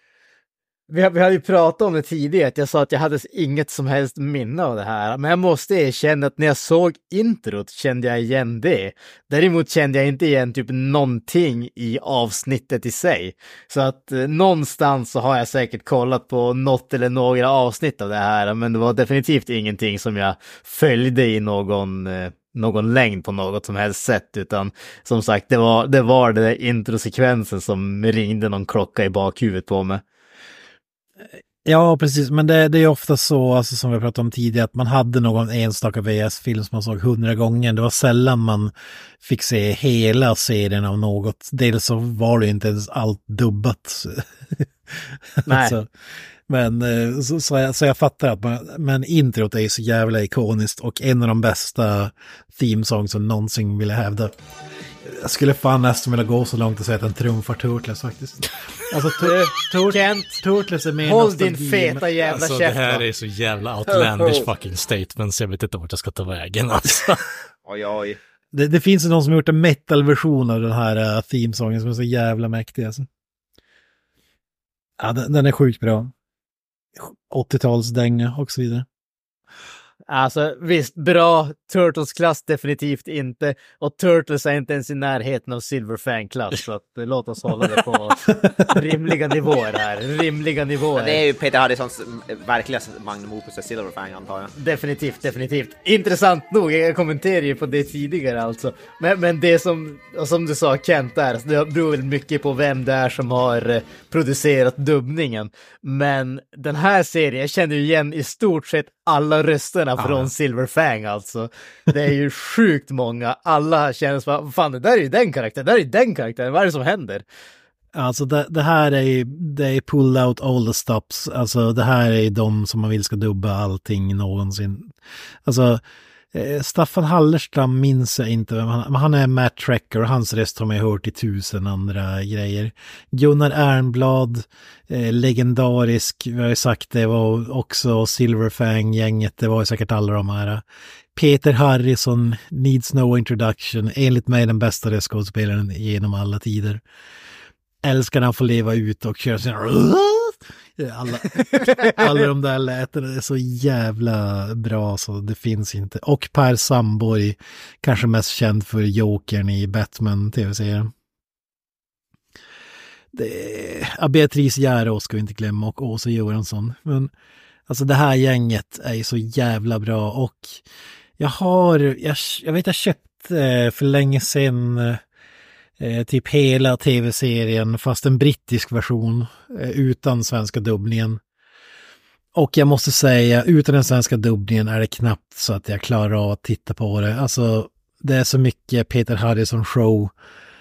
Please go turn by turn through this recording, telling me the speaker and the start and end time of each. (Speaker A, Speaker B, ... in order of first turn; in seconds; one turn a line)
Speaker A: 0.9-30.0
Speaker B: 31.6-45.9
Speaker A: 45.5-45.8
Speaker B: 46.5-54.3
Speaker B: 55.0-62.1
Speaker A: 59.2-60.4
Speaker A: 61.0-63.0
Speaker C: 62.3-67.2
Speaker D: 67.7-68.2
Speaker B: 68.5-73.1
Speaker B: 75.0-76.1
Speaker B: 77.0-78.9
Speaker A: 80.1-91.2
Speaker D: 91.0-94.5
Speaker A: 94.6-117.2
Speaker B: 110.0-110.3
Speaker B: 117.9-124.9
Speaker B: 125.5-125.8
Speaker B: 126.3-140.6
Speaker B: 141.2-146.8
Speaker B: 147.8-160.9
Speaker B: 163.1-167.1
Speaker B: 167.7-170.6
Speaker B: 171.2-175.0
Speaker B: 175.8-181.2
Speaker B: 182.3-190.1